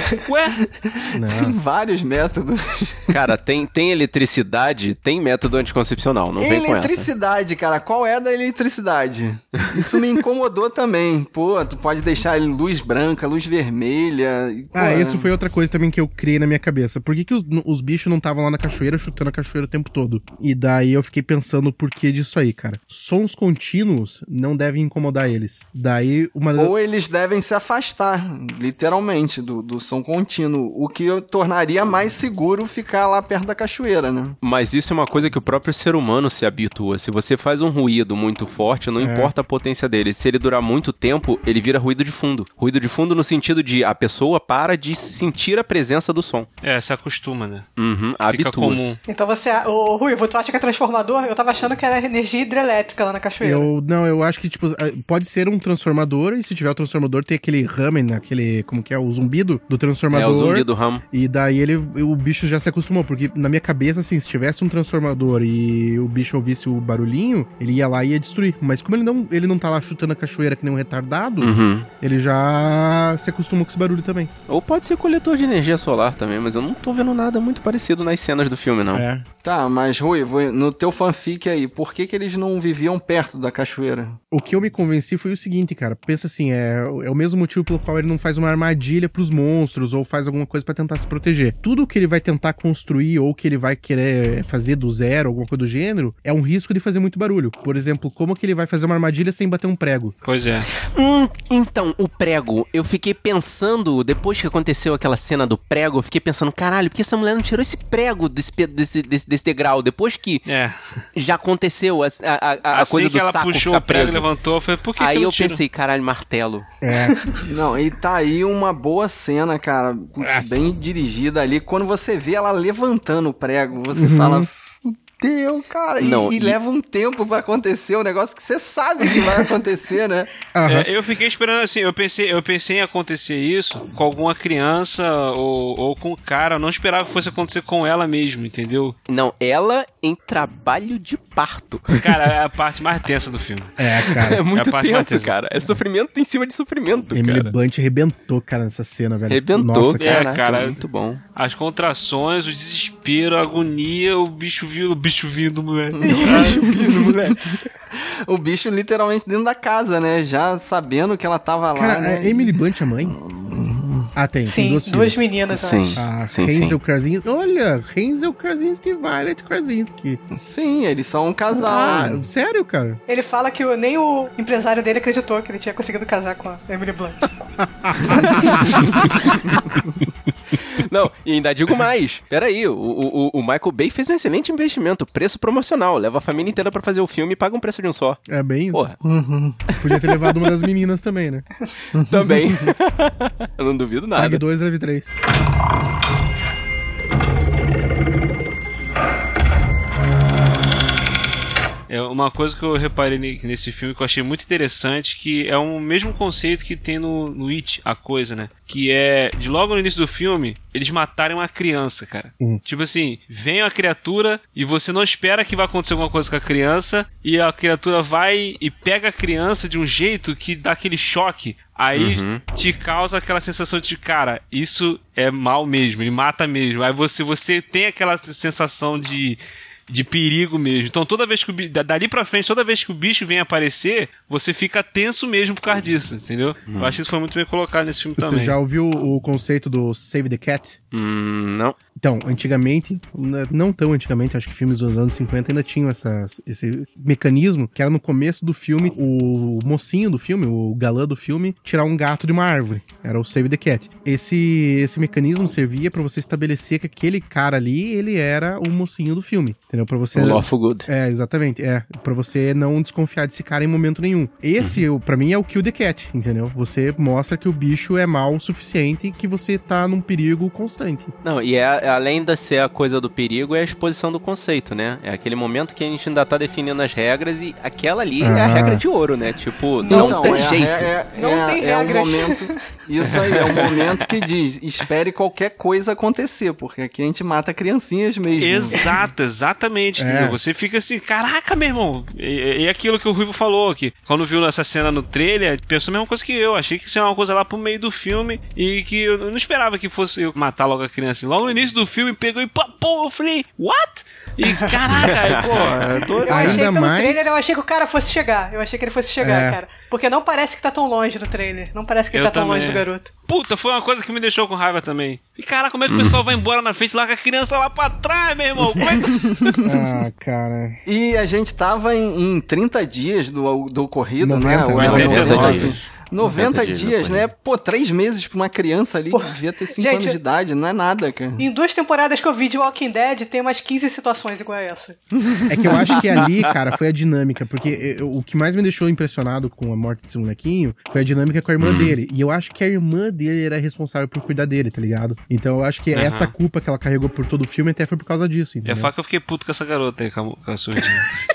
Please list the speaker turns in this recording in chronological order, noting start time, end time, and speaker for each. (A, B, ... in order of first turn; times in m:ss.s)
0:00.3-0:00.6 A
0:00.8-0:03.1 B
0:01.1-0:01.5 C
0:03.1-0:07.1 D
0:06.4-0:15.3 B
0:14.7-0:26.7 C
0:26.5-0:34.4 B
0:34.4-0:46.5 D
0:39.0-0:39.3 C
0:46.6-0:47.7 A
0:47.8-0:48.8 D
0:48.2-0:49.0 A
0:49.1-0:53.7 E
0:53.4-1:14.3 C
1:00.1-1:01.0 D
1:11.4-1:11.9 D
1:14.5-1:19.0 D
1:18.9-1:19.2 C
1:19.4-1:24.2 B
1:24.3-1:40.1 C
1:40.2-1:40.7 A
1:40.9-1:50.4 D
1:50.5-1:51.0 A
1:51.1-1:54.3 D
1:52.7-1:55.6 A
1:55.0-1:56.7 D
1:56.8-1:57.3 C
1:57.4-2:10.3 B
2:00.2-2:00.6 C
2:03.9-2:04.5 C
2:06.0-2:06.6 D
2:10.5-2:10.9 C
2:10.6-2:19.0 A
2:19.1-2:22.0 D
2:21.9-2:23.8 A
2:23.8-2:24.4 C
2:24.1-2:27.5 D
2:24.5-2:25.3 A
2:27.1-2:30.1 C
2:29.3-2:31.2 D
2:30.0-2:30.8 A
2:31.4-2:36.1 A
2:36.0-2:42.5 B
2:36.0-2:36.4 E
2:36.2-2:37.4 D
2:41.7-2:43.2 C
2:43.0-2:44.1 B
2:44.2-2:45.2 C
2:44.4-2:46.0 E
2:45.5-2:46.8 D
2:46.0-2:51.0 C
2:50.3-2:52.2 B
2:51.5-2:53.0 C
2:53.1-2:57.3 E
2:57.8-2:58.8 C
3:00.5-3:08.2 D
3:08.3-3:08.9 C
3:09.0-3:09.7 B
3:09.8-3:11.5 C
3:11.9-3:14.4 D
3:12.0-3:12.7 B
3:14.1-3:15.2 C
3:21.9-3:58.6 A
3:41.9-3:42.4 D
3:56.7-3:57.0 D
3:57.8-4:00.8 C
4:00.9-4:01.8 D
4:02.0-4:31.1 C
4:20.1-4:20.9 D
4:31.2-4:40.9 D
4:38.2-4:38.8 C
4:39.8-4:40.4 E
4:39.9-4:48.8 B
4:41.1-4:42.6 E
4:43.0-4:44.1 D
4:48.4-5:06.5 A
4:50.0-4:50.4 C
5:04.9-5:06.6 D
5:06.2-5:13.1 E
5:06.3-5:07.3 C
5:09.2-5:09.6 C
5:12.1-5:19.6 A
5:15.9-5:16.2 D
5:18.9-5:19.6 B
5:19.6-5:20.8 C
5:20.8-5:31.5 B
5:24.2-5:25.6 C
5:24.7-5:27.3 D
5:24.8-5:25.7 A
5:29.1-5:30.2 E
5:31.4-5:35.0 E
5:35.2-5:35.5 B
5:35.5-5:48.9 C
5:41.6-5:41.9 D
5:45.9-5:46.3 A
5:48.6-5:51.1 A